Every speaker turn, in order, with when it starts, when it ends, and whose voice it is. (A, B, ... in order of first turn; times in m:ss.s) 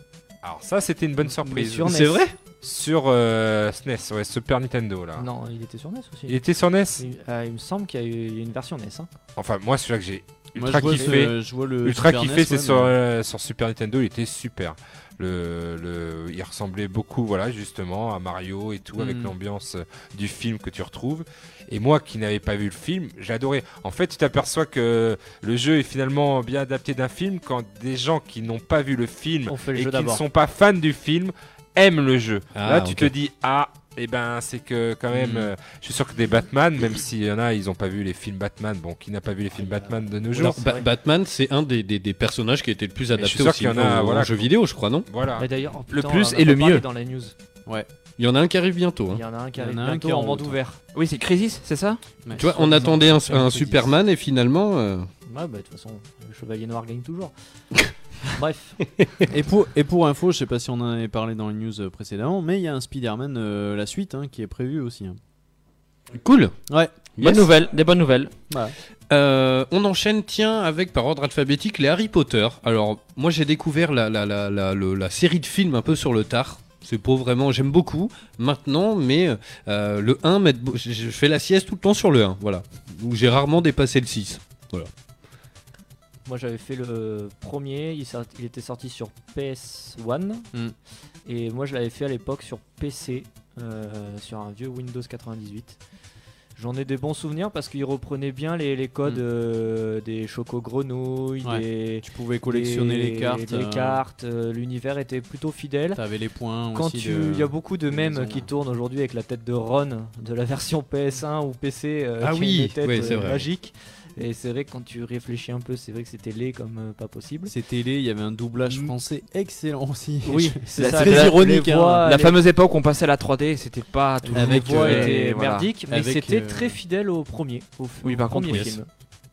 0:00.4-0:01.9 A
0:01.2-0:02.2 B
0:01.8-0:02.3 C
0:02.6-0:05.3 A
0:05.2-0:06.4 B
0:06.3-0:07.0 A
0:07.0-0:09.1 B
0:09.4-0:40.6 A
0:10.6-0:12.9 D
0:10.8-0:11.1 B
0:19.0-0:19.3 D
0:29.5-0:30.2 B
0:32.5-0:33.1 C
0:35.1-0:35.5 C
0:39.5-0:40.8 B
0:40.3-0:45.1 C
0:43.2-0:44.4 A
0:45.1-0:45.5 A
0:45.4-0:47.3 B
0:45.9-0:46.8 E
0:48.2-0:49.2 C
0:49.1-0:50.8 B
0:49.6-0:50.6 D
0:50.9-0:52.0 E
0:52.2-0:53.9 D
0:52.4-0:55.1 C
0:55.3-0:57.3 B
0:58.3-0:58.8 B
0:59.3-1:05.2 D
1:06.2-1:06.5 C
1:06.7-1:06.9 D
1:07.2-1:07.5 C
1:07.2-1:08.3 E
1:08.5-1:08.7 D
1:09.1-1:24.9 C
1:26.3-1:30.5 B
1:31.2-1:35.8 B
1:36.6-1:46.0 B
1:41.4-1:44.0 D
1:45.9-1:48.5 D
1:46.7-1:57.5 B
1:52.2-1:53.5 C
1:53.0-1:53.3 D
1:57.4-2:02.1 D
1:58.6-1:58.9 B
2:00.3-2:02.4 B
2:00.8-2:05.7 E
2:04.2-2:08.9 B
2:04.3-2:05.2 D
2:05.9-2:06.8 D
2:08.0-2:08.8 E
2:08.5-2:08.7 C